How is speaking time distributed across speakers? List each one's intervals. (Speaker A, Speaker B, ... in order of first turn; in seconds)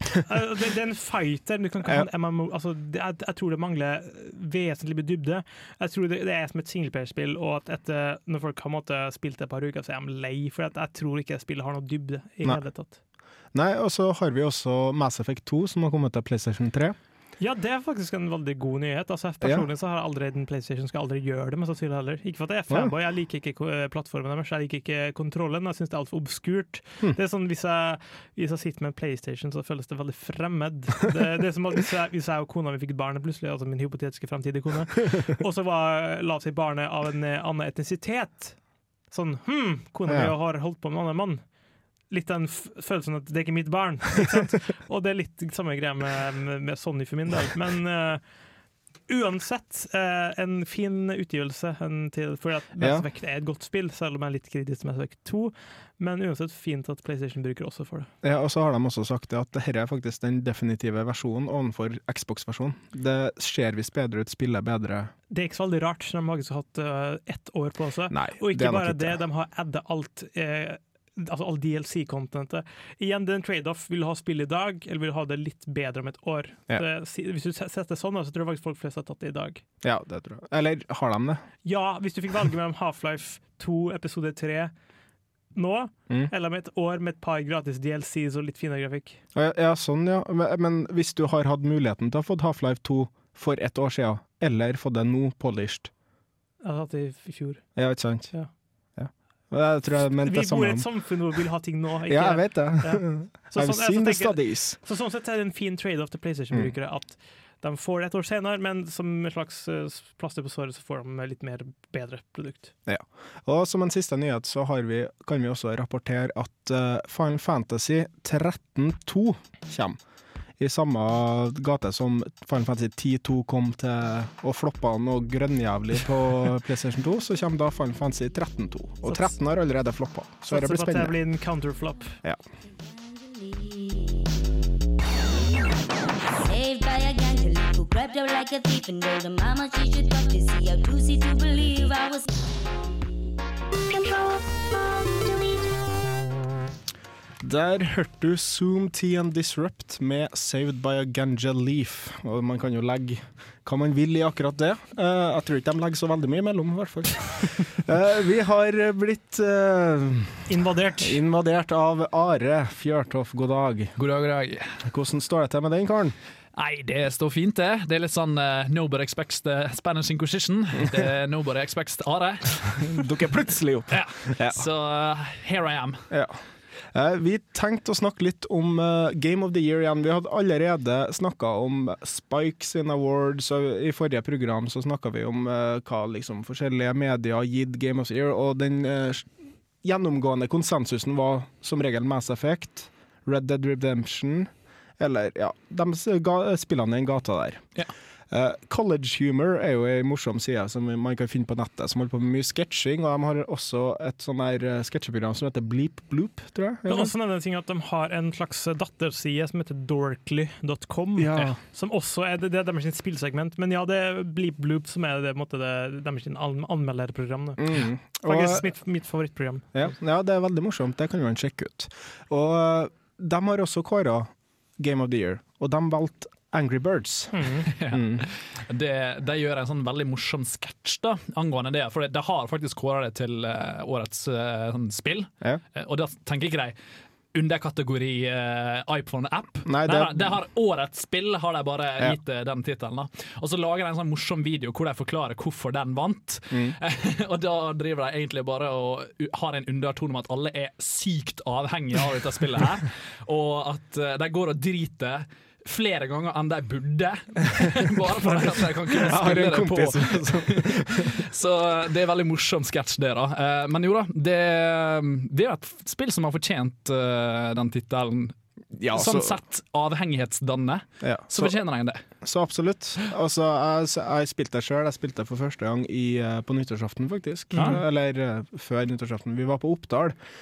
Speaker A: 0.2-13.0, 17.4-38.6, 39.1-41.4, 42.1-48.2, 49.1-58.1, 65.3-79.6, 81.6-84.7, 85.5-89.2, 96.6-97.7, 100.2-112.7, 129.1-129.3, 130.5-132.2, 160.5-161.2, 206.9-217.7, 218.2-219.9, 227.3-227.7
Speaker B: 13.5-16.9, 40.1-40.3, 52.8-53.0, 58.2-65.1, 68.1-69.2, 79.8-81.4, 89.3-95.9, 97.8-98.3, 99.0-100.9, 102.1-104.8, 112.8-120.0, 120.6-131.2, 147.4-160.5, 161.0-163.9, 164.8-166.2, 172.8-174.6, 176.1-176.4, 176.9-189.3, 189.8-197.7, 198.3-207.1, 211.2-211.6, 217.6-218.7, 219.7-228.3, 239.7-240.3, 246.5-246.8, 258.3-261.2, 268.8-269.4, 271.0-271.5, 272.2-280.2
Speaker C: 132.6-134.4, 136.4-142.3
Speaker D: 164.0-164.8, 166.6-173.0, 173.9-176.0, 227.8-236.8, 237.3-268.3, 268.9-272.0